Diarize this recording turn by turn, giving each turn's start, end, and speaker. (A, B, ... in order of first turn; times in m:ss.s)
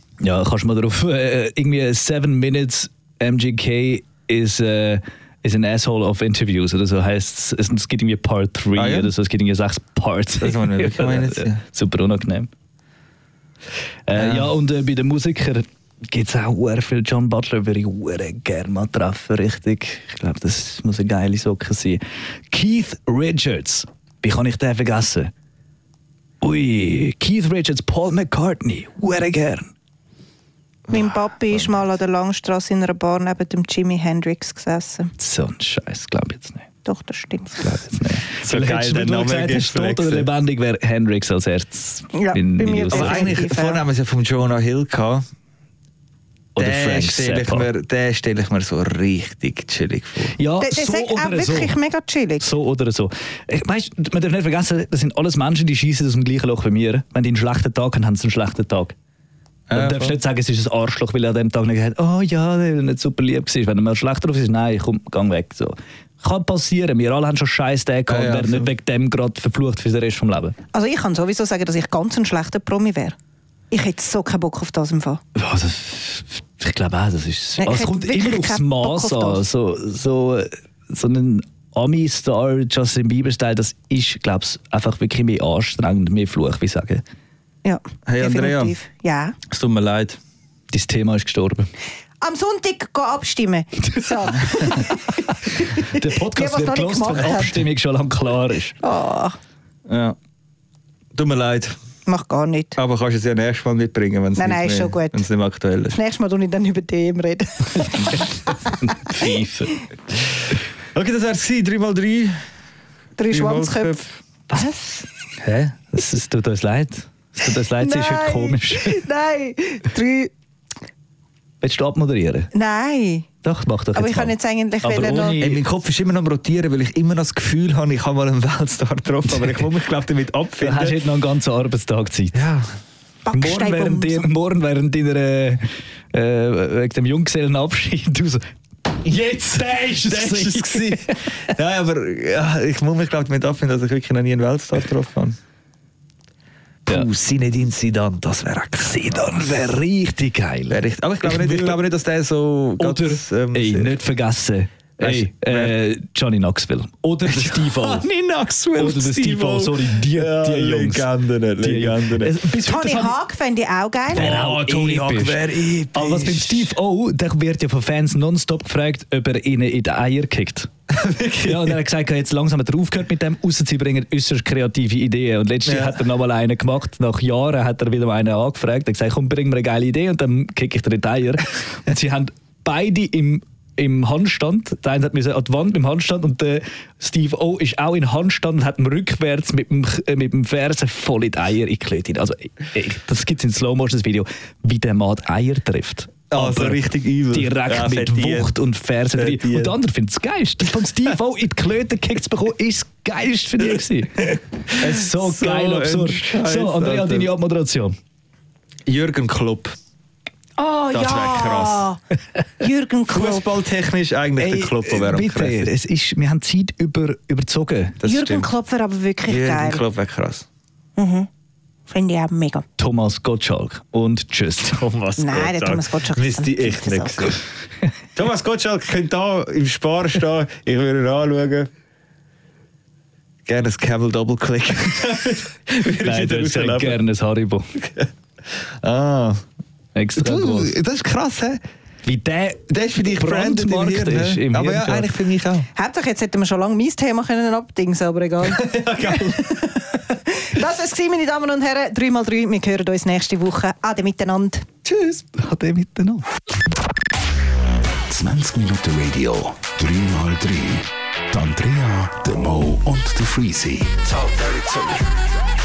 0:00.2-0:12.5 A
0:08.8-0:09.1 B
0:10.4-0:11.6 B
0:14.1-0:25.3 A
0:14.1-0:14.5 B
0:26.4-0:29.7 A
0:30.9-0:31.8 B
0:30.9-0:35.1 C
0:35.2-0:36.6 A
0:36.8-0:37.7 C
0:37.6-0:43.3 A
0:38.4-0:40.3 B
0:42.1-0:43.8 C
0:42.9-0:45.2 B
0:46.5-0:47.7 A
0:46.6-0:50.4 B
0:50.4-0:51.7 A
0:50.6-0:52.4 C
0:52.4-0:58.9 A
0:59.7-1:00.2 B
0:59.7-1:10.6 A
1:08.1-1:08.7 B
1:10.7-1:13.2 C
1:13.7-1:15.2 C
1:15.3-1:27.0 A
1:17.6-1:19.4 C
1:27.6-1:29.4 C
1:28.1-1:28.7 B
1:29.5-1:30.2 B
1:30.7-1:31.7 A
1:32.2-1:37.6 C
1:33.9-1:38.8 A
1:38.8-1:39.4 C
1:39.9-1:40.2 B
1:41.1-1:41.7 B
1:42.0-1:42.8 C
1:42.8-1:46.0 B
1:44.4-1:45.2 C
1:45.9-1:49.3 C
1:47.8-1:49.8 A
1:50.9-1:52.4 B
1:53.2-1:54.0 C
1:53.3-1:54.2 B
1:54.5-1:55.0 C
1:55.4-1:55.8 B
1:55.9-1:59.0 A
1:57.8-2:00.3 C
2:01.6-2:02.5 A
2:02.5-2:03.3 C
2:03.4-2:05.6 A
2:03.9-2:05.4 C
2:05.0-2:11.0 B
2:10.6-2:12.4 A
2:12.3-2:12.7 B
2:13.2-2:14.3 C
2:13.3-2:18.4 A
2:19.0-2:25.4 B
2:19.4-2:21.3 A
2:26.8-2:29.4 B
2:28.8-2:31.8 A
2:30.7-2:34.0 B
2:32.8-2:38.0 A
2:35.0-2:35.8 B
2:37.3-2:42.4 B
2:38.8-2:41.1 A
2:41.6-2:43.1 A
2:42.6-2:44.3 C
2:44.1-2:50.7 A
2:44.1-2:46.7 B
2:50.9-2:51.8 B
2:51.4-3:28.0 A
2:55.6-2:56.0 B
3:16.3-3:18.6 B
3:19.2-3:19.7 B
3:24.2-3:27.3 B
3:28.8-3:29.7 B
3:30.6-3:32.0 C
3:30.9-3:31.9 B
3:32.6-3:33.4 C
3:33.1-3:35.7 B
3:34.4-3:38.0 A
3:38.0-3:38.5 B
3:38.0-3:39.8 C
3:39.3-3:40.4 B
3:41.0-3:41.3 C
3:41.9-3:42.6 C
3:42.8-3:44.8 A
3:44.7-3:47.4 B
3:45.2-3:47.3 C
3:48.1-3:51.7 B
3:53.4-3:57.0 B
3:56.0-3:57.7 A
3:57.7-3:59.4 B
3:59.9-4:00.7 A
4:00.2-4:01.6 B
4:02.0-4:05.1 A
4:02.7-4:05.7 B
4:05.8-4:14.6 C
4:08.4-4:09.7 B
4:14.8-4:16.2 A
4:18.0-4:25.2 D